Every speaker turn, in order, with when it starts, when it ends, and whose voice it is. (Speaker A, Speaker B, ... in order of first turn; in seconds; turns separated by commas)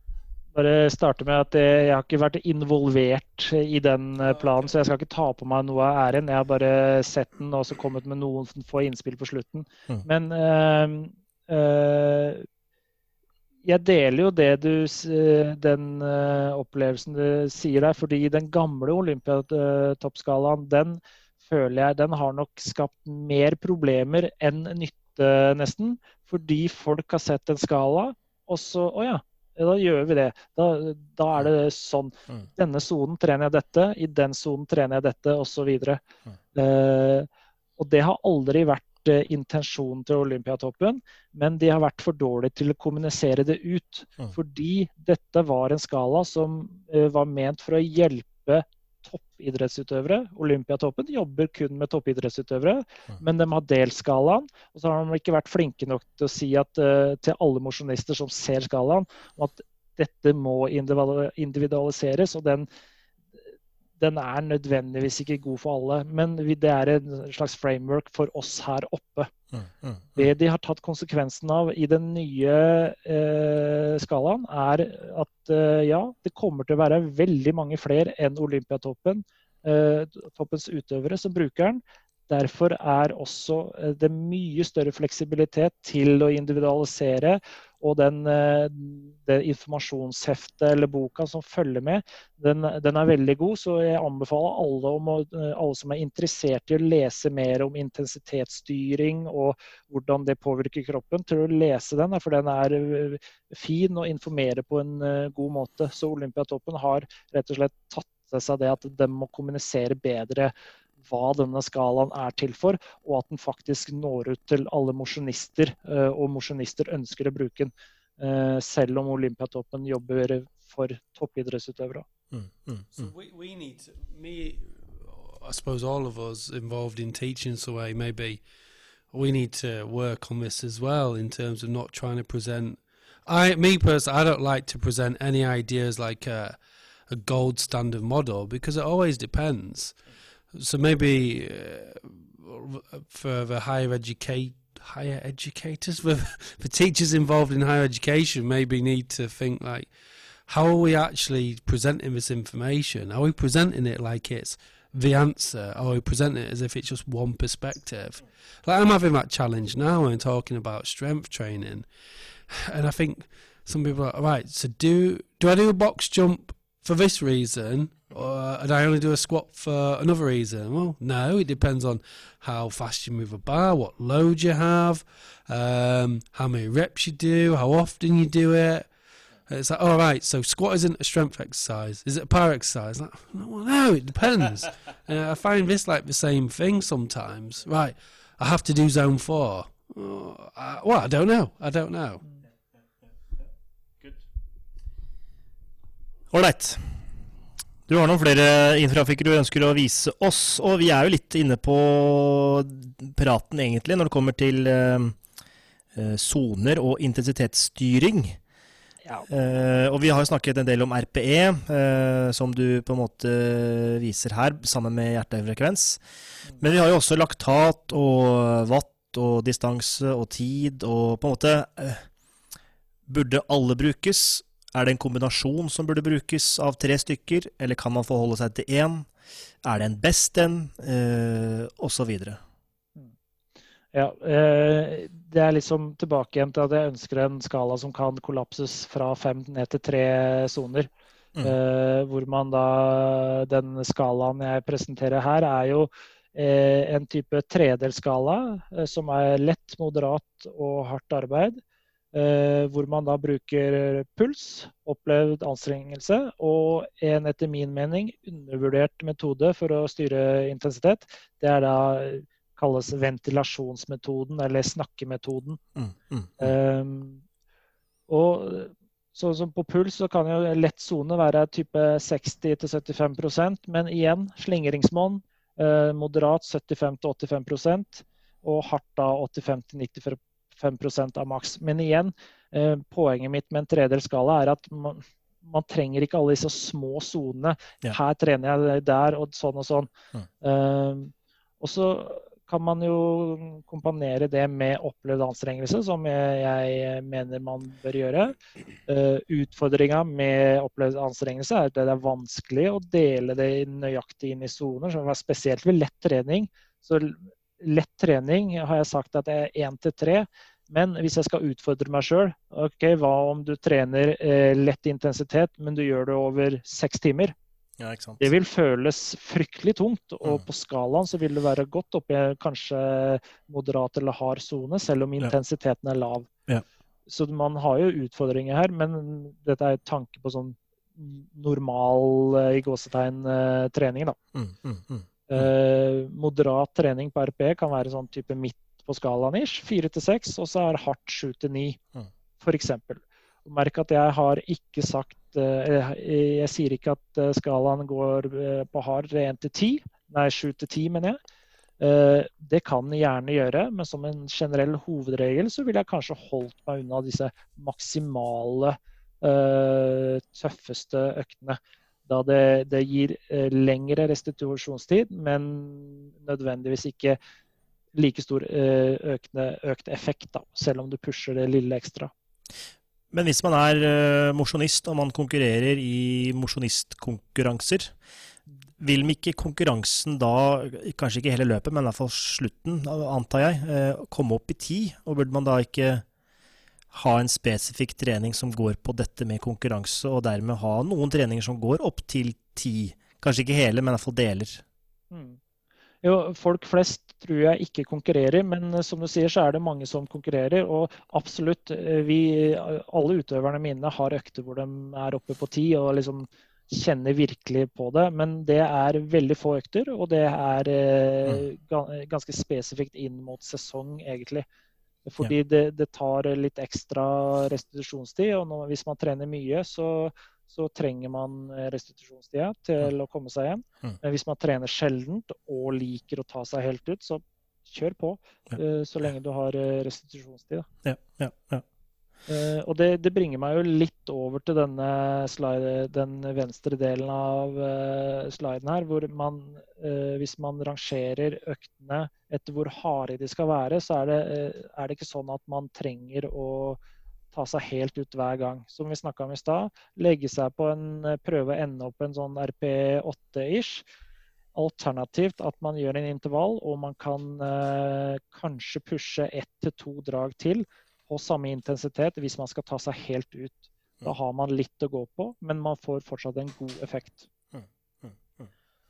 Speaker A: 0.5-12.5, Speaker A: 13.6-36.0, Speaker A: 36.5-62.7, Speaker A: 64.0-69.3, Speaker B: 69.5-70.3, Speaker A: 70.2-110.5, Speaker A: 111.0-122.0, Speaker B: 122.3-122.9, Speaker C: 123.0-128.4, Speaker C: 129.1-140.0, Speaker C: 140.5-149.9, Speaker C: 150.4-161.9, Speaker C: 162.5-178.9, Speaker C: 179.5-192.2, Speaker B: 196.3-197.0, Speaker B: 197.9-205.2, Speaker B: 205.9-208.4, Speaker B: 209.3-216.0, Speaker B: 216.6-222.1, Speaker B: 223.1-229.1, Speaker B: 229.6-232.4, Speaker A: 233.9-251.6, Speaker A: 252.1-265.6, Speaker B: 265.7-266.5, Speaker A: 266.4-267.2, Speaker A: 268.1-298.4, Speaker A: 298.9-317.3, Speaker B: 317.8-318.2, Speaker A: 318.2-326.3, Speaker A: 327.1-334.2, Speaker B: 334.3-335.5, Speaker A: 335.3-341.8, Speaker A: 342.4-351.2, Speaker A: 351.8-367.2, Speaker A: 367.9-372.1, Speaker B: 373.1-377.9, Speaker B: 378.8-386.0, Speaker B: 386.9-394.6, Speaker A: 395.1-395.4, Speaker A: 396.0-414.4, Speaker A: 415.1-430.7, Speaker B: 430.8-431.6, Speaker A: 432.3-446.8, Speaker A: 447.3-453.9, Speaker A: 454.5-467.3, Speaker B: 467.5-468.5